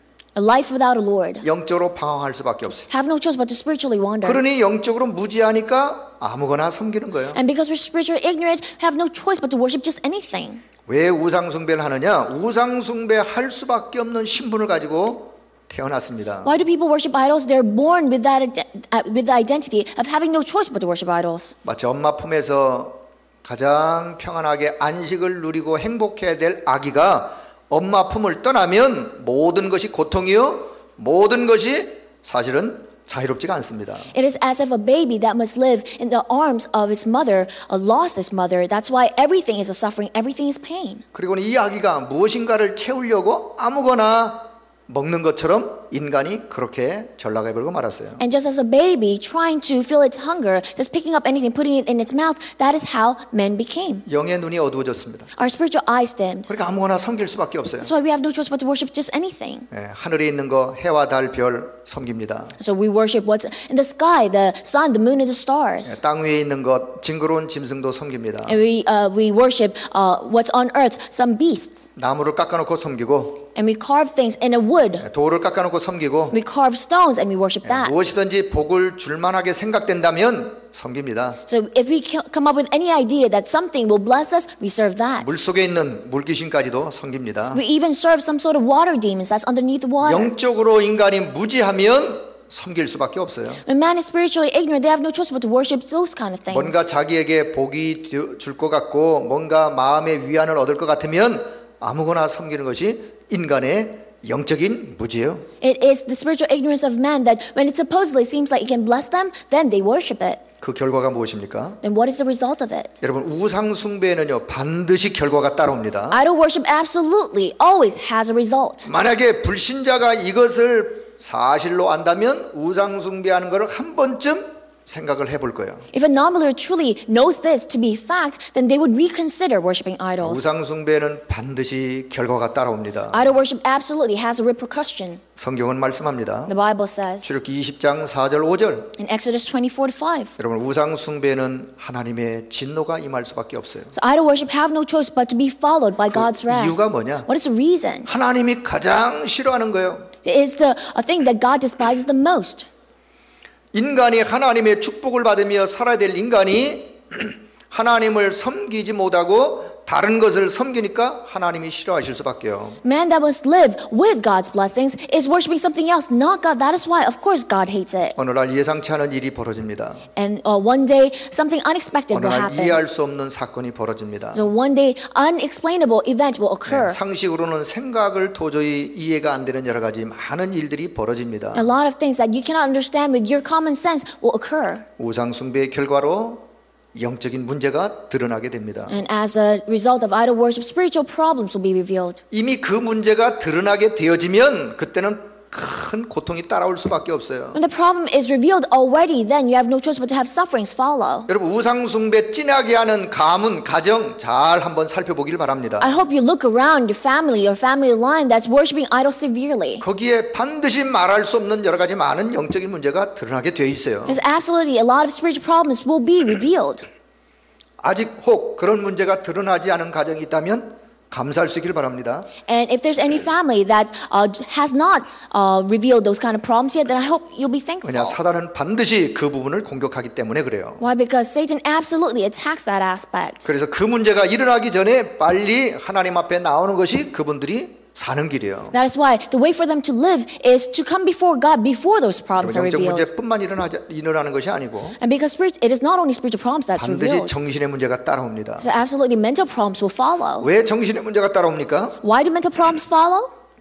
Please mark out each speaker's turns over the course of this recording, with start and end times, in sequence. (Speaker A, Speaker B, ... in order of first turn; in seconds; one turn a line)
Speaker A: 0.3-1.4
Speaker B: 1.4-2.9
Speaker A: 2.9-4.4
Speaker B: 4.2-7.4
Speaker A: 7.3-10.6
Speaker B: 10.9-16.6
Speaker A: 16.4-21.5
Speaker B: 21.6-34.1
Speaker A: 34.1-41.0
Speaker B: 41.1-48.2
Speaker A: 48.2-54.0
Speaker B: 54.0-55.3
Speaker A: 55.4-56.5
Speaker B: 56.5-57.9
Speaker A: 57.8-59.7
Speaker B: 59.7-62.5
Speaker A: 62.6-66.0
Speaker B: 65.8-68.6
Speaker A: 68.5-71.9
Speaker B: 72.0-73.5
Speaker A: 73.5-75.0
Speaker B: 75.0-76.4
Speaker A: 76.3-78.0
Speaker B: 77.6-81.4
Speaker A: 81.5-85.3
Speaker B: 85.2-87.6
Speaker A: 87.5-90.3
Speaker B: 90.0-93.6
Speaker A: 93.7-96.9
Speaker B: 96.5-105.5
Speaker A: 105.6-110.4
Speaker B: 110.6-111.8
Speaker A: 111.8-113.0
Speaker B: 113.0-116.2
Speaker A: 116.1-118.9
Speaker B: 118.8-125.8
Speaker A: 125.9-130.5
Speaker B: 130.2-133.2
Speaker A: 133.1-135.2
Speaker B: 135.3-136.5
Speaker A: 136.5-137.3
Speaker B: 137.2-138.9
Speaker A: 139.0-140.3
Speaker B: 140.4-143.9
Speaker A: 143.9-148.1
Speaker B: 146.1-147.3
Speaker B: 148.0-150.1
Speaker A: 150.2-152.7
Speaker B: 153.7-162.8
Speaker A: 162.8-168.1
Speaker B: 168.2-170.1
Speaker A: 170.2-172.8
Speaker B: 172.1-174.4
Speaker A: 174.3-177.0
Speaker B: 176.7-181.7
Speaker A: 181.5-184.8
Speaker B: 185.0-189.0
Speaker A: 188.9-192.2
Speaker B: 192.3-197.6
Speaker A: 197.5-201.3
Speaker B: 201.3-205.9
Speaker A: 205.8-209.8
Speaker B: 209.8-214.2
Speaker A: 214.1-216.8
Speaker B: 217.8-222.3
Speaker A: 222.4-228.2
Speaker B: 227.8-230.8
Speaker A: 230.8-233.4
Speaker B: 233.4-238.8
Speaker A: 238.7-243.1
Speaker B: 242.4-245.0
Speaker A: 245.0-247.3
Speaker B: 246.8-248.7
Speaker A: 248.6-250.5
Speaker B: 250.4-252.0
Speaker A: 252.0-253.3